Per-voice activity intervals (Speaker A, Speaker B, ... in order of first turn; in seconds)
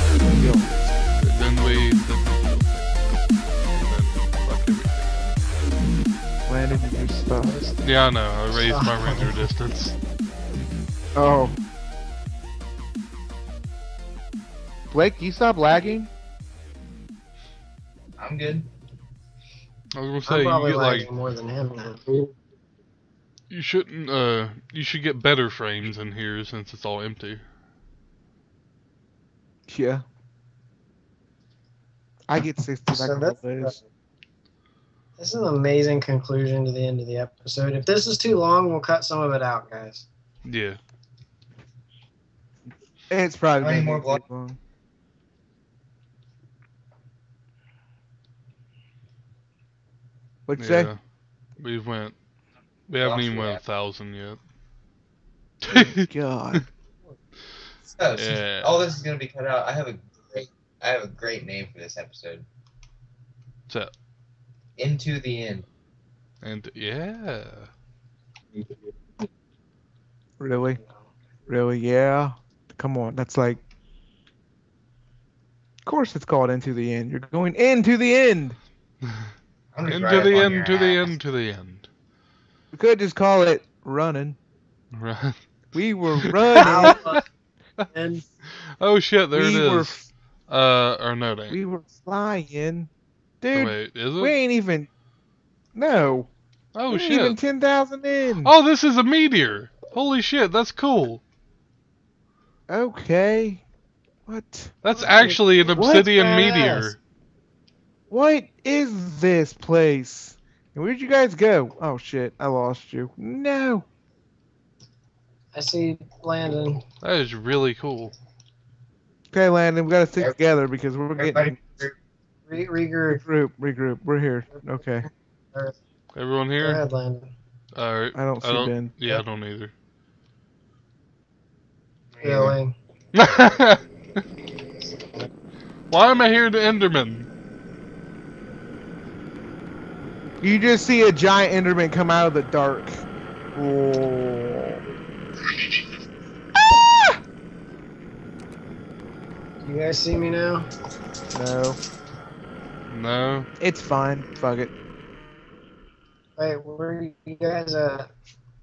Speaker A: 0.2-1.0, 6.5-7.6, 11.1-11.6, 14.9-16.1, 29.7-30.0, 32.3-33.8, 43.1-44.6, 50.5-50.9, 55.7-56.6, 70.4-70.8, 71.5-73.6, 75.8-78.6, 82.7-84.4, 85.7-87.0, 89.3-90.1, 91.5-94.9, 95.7-96.3, 96.9-98.5, 102.7-103.6, 104.3-106.1, 108.1-113.8, 119.3-121.6, 123.1-125.1, 128.1-129.2, 140.4-144.8, 146.6-147.2, 151.3-151.8, 153.6-154.7
Speaker B: 1.2-5.3, 7.8-9.9, 19.9-21.1, 23.5-27.4, 40.4-40.8, 50.6-51.0, 51.6-52.2, 52.9-54.4, 55.6-56.6, 58.1-58.8, 66.4-67.7, 79.0-79.3, 79.9-81.9, 84.9-85.4, 86.2-87.2, 88.5-90.0, 90.5-91.6, 93.5-94.3, 96.7-97.4, 98.4-101.2, 104.8-107.0, 117.0-118.1, 126.1-126.8, 127.7-129.7, 133.1-133.8, 135.9-137.3, 152.9-153.5
Speaker C: 7.3-7.8, 8.5-9.4, 20.2-22.3, 32.9-33.8, 35.2-40.1, 70.8-71.1, 86.6-87.2, 87.9-88.2, 105.2-106.9, 115.5-116.8, 122.5-123.2, 124.5-124.8, 126.6-127.3, 132.2-132.7, 135.0-135.3, 149.6-150.7, 156.4-158.1
Speaker D: 18.2-18.7, 43.6-44.2, 53.0-53.6, 57.8-62.5, 64.8-65.7, 79.7-81.1, 121.2-121.9, 132.1-132.6